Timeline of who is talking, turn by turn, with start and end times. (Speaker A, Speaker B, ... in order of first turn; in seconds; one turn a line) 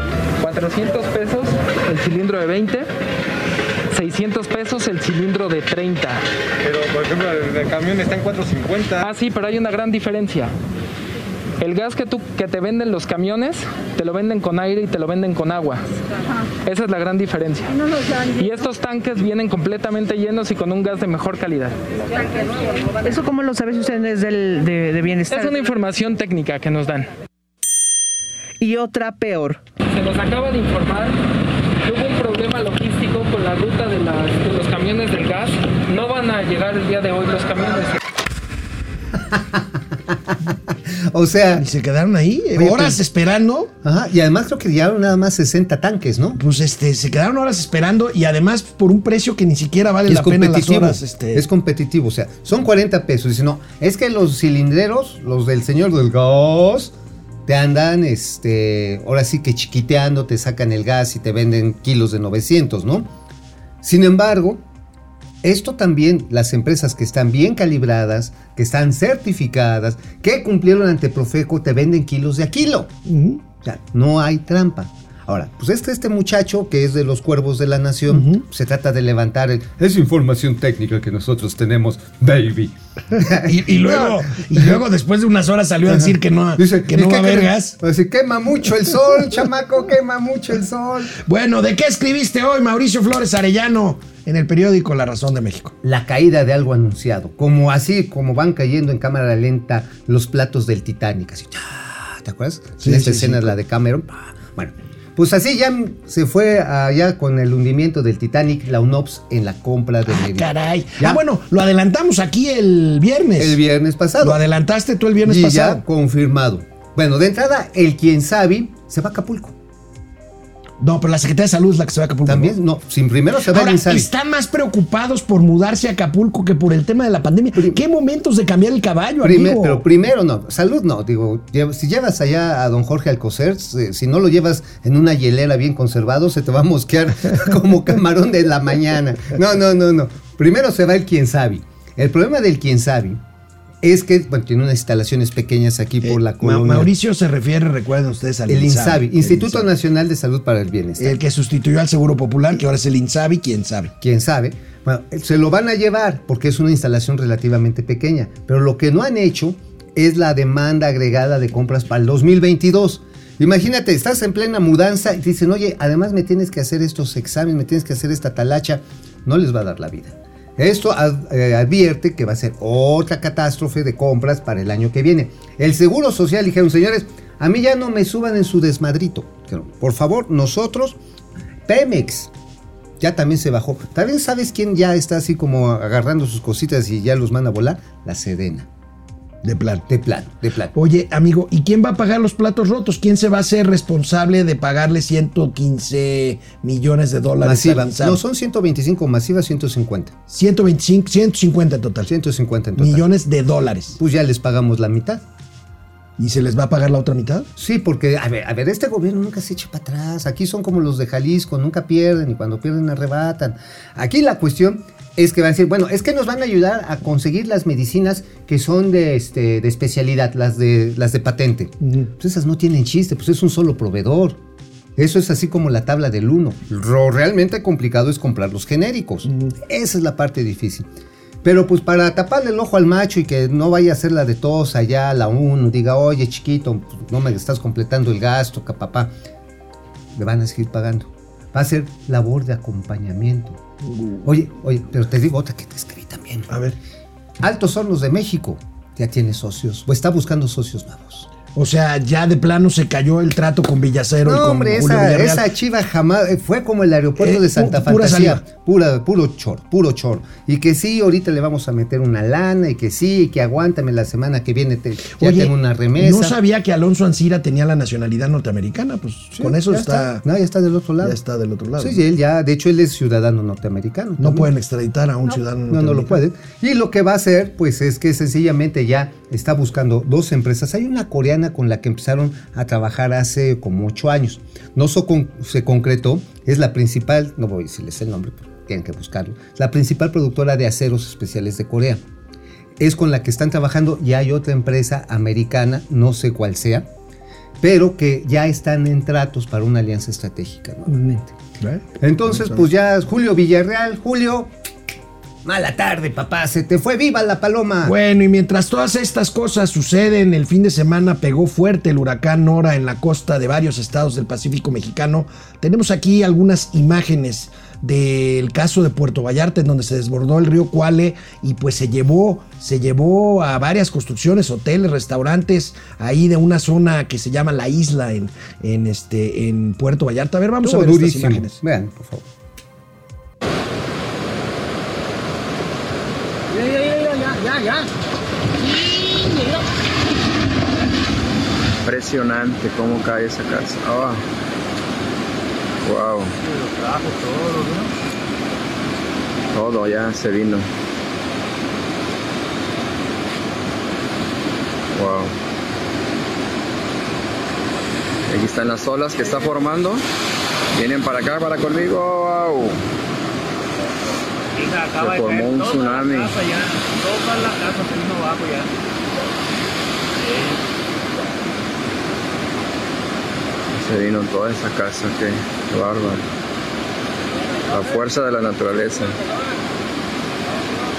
Speaker A: 0.4-2.9
Speaker A: 3.9-6.2
Speaker B: 6.7-9.0
Speaker A: 9.0-10.5
Speaker A: 11.6-15.8
Speaker A: 16.6-17.8
Speaker A: 18.3-21.8
Speaker C: 23.0-25.5
Speaker A: 25.3-27.1
Speaker C: 28.6-29.6
Speaker A: 29.9-31.2
Speaker A: 31.8-38.0
Speaker D: 39.1-41.6
Speaker E: 41.5-43.7
Speaker D: 42.5-43.0
Speaker D: 43.8-46.4
Speaker E: 46.4-51.5
Speaker D: 50.0-56.9
Speaker D: 57.5-63.1
Speaker D: 63.8-64.6
Speaker D: 65.4-72.9
Speaker E: 73.0-73.4
Speaker D: 73.6-84.8
Speaker E: 78.1-78.4
Speaker E: 83.3-87.8
Speaker D: 85.9-91.2
Speaker E: 91.2-95.7
Speaker D: 95.8-111.2
Speaker E: 102.8-103.5
Speaker E: 110.1-113.6
Speaker D: 113.4-114.4
Speaker E: 114.2-115.8
Speaker D: 115.2-119.5
Speaker E: 120.8-122.5
Speaker D: 122.2-124.1
Speaker E: 123.5-129.8
Speaker D: 127.5-127.8
Speaker D: 129.2-143.2
Speaker D: 143.8-146.9
Speaker E: 146.0-149.7
Speaker D: 148.5-151.2
Speaker E: 151.0-153.9
Speaker D: 154.0-181.0
Speaker D: 181.7-182.3
Speaker D: 183.0-188.7
Speaker E: 189.4-189.8
Speaker D: 189.9-190.7
Speaker E: 190.7-198.2
Speaker D: 197.4-200.1
Speaker E: 200.3-202.1
Speaker D: 202.0-203.1
Speaker E: 202.8-204.0
Speaker D: 204.0-205.2
Speaker E: 206.2-207.5
Speaker D: 207.6-224.4
Speaker E: 221.8-222.1
Speaker D: 224.9-230.9
Speaker E: 229.3-229.5
Speaker D: 231.4-239.1
Speaker D: 240.1-243.6
Speaker E: 243.8-244.2
Speaker D: 244.2-246.5
Speaker E: 246.5-246.8
Speaker D: 247.4-251.3
Speaker E: 251.5-255.5
Speaker D: 254.2-266.4
Speaker E: 257.2-258.4
Speaker E: 265.2-270.2
Speaker D: 269.3-271.2
Speaker E: 271.0-272.0
Speaker D: 271.8-274.5
Speaker E: 274.2-276.2
Speaker D: 275.7-292.0
Speaker D: 292.8-296.9
Speaker D: 297.6-301.3
Speaker E: 300.9-301.8
Speaker D: 302.0-304.5
Speaker D: 305.4-307.9
Speaker E: 307.8-331.6
Speaker D: 330.6-332.2
Speaker F: 341.8-344.2
Speaker F: 345.8-346.3
Speaker F: 349.5-350.7
Speaker F: 354.9-355.3
Speaker F: 358.3-360.0
Speaker F: 360.7-362.8
Speaker F: 364.8-366.4
Speaker F: 373.7-376.2
Speaker F: 377.7-379.2